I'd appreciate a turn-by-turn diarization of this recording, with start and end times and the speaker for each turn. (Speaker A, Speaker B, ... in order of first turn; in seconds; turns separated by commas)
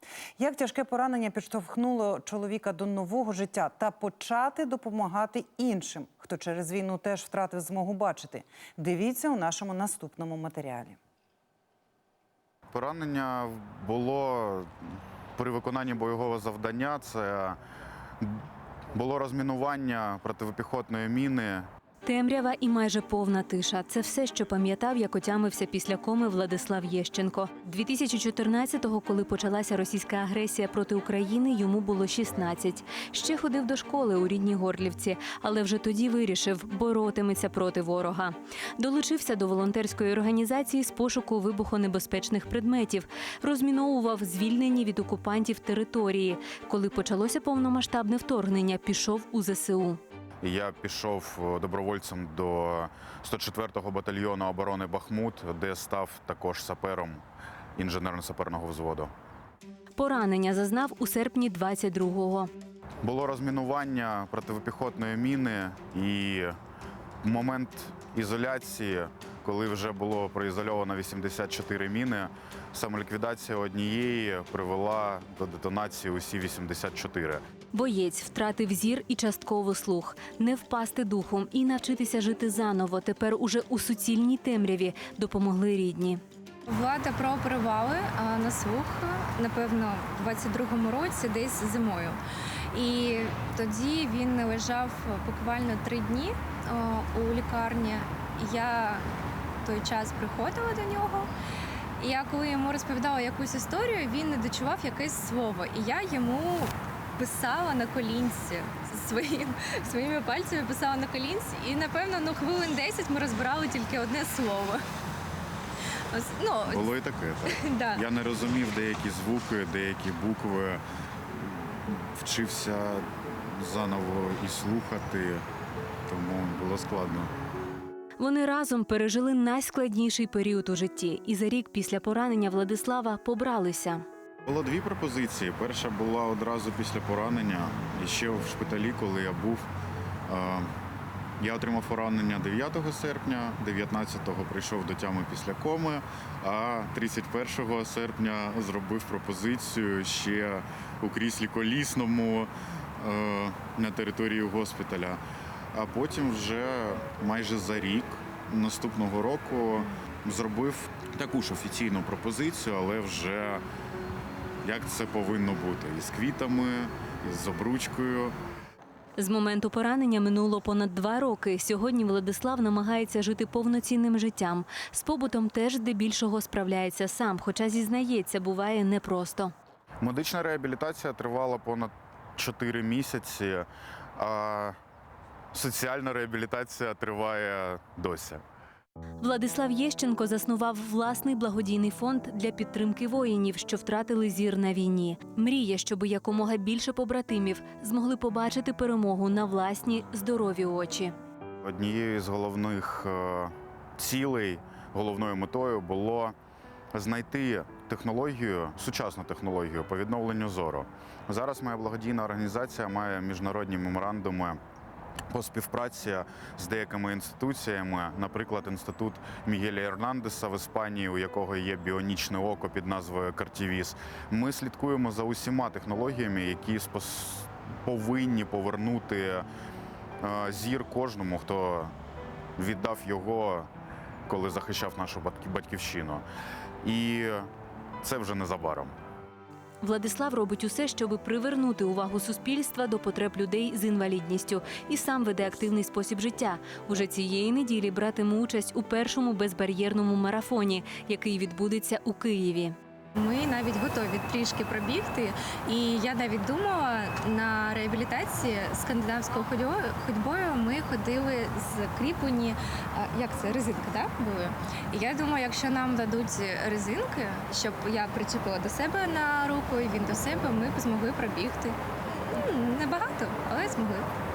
Speaker A: 0.4-11.0, Speaker B: 12.7-14.7, Speaker B: 15.4-17.6, Speaker B: 18.2-21.7, Speaker C: 22.1-50.0, Speaker B: 50.4-57.2, Speaker B: 57.8-59.1, Speaker C: 60.0-62.5, Speaker B: 63.0-66.6, Speaker B: 67.2-77.4, Speaker C: 77.7-86.2, Speaker D: 86.7-92.2, Speaker D: 92.7-99.0, Speaker D: 99.6-101.3, Speaker D: 102.0-114.8, Speaker D: 116.1-116.9, Speaker B: 116.7-125.5, Speaker D: 117.5-118.0, Speaker B: 126.1-127.3, Speaker C: 128.2-134.0, Speaker B: 134.5-139.7, Speaker B: 140.3-140.7, Speaker B: 141.4-155.2, Speaker B: 155.7-163.6, Speaker B: 164.6-168.3, Speaker C: 169.2-179.5, Speaker B: 180.0-184.8, Speaker B: 185.5-188.4, Speaker C: 189.2-201.1, Speaker B: 201.6-206.3, Speaker B: 206.9-214.6, Speaker B: 215.3-229.5, Speaker B: 230.2-231.9, Speaker B: 232.6-233.7, Speaker B: 234.3-236.2, Speaker B: 236.8-237.5, Speaker B: 238.0-238.9, Speaker C: 239.8-252.8, Speaker D: 253.2-271.8, Speaker D: 272.3-274.1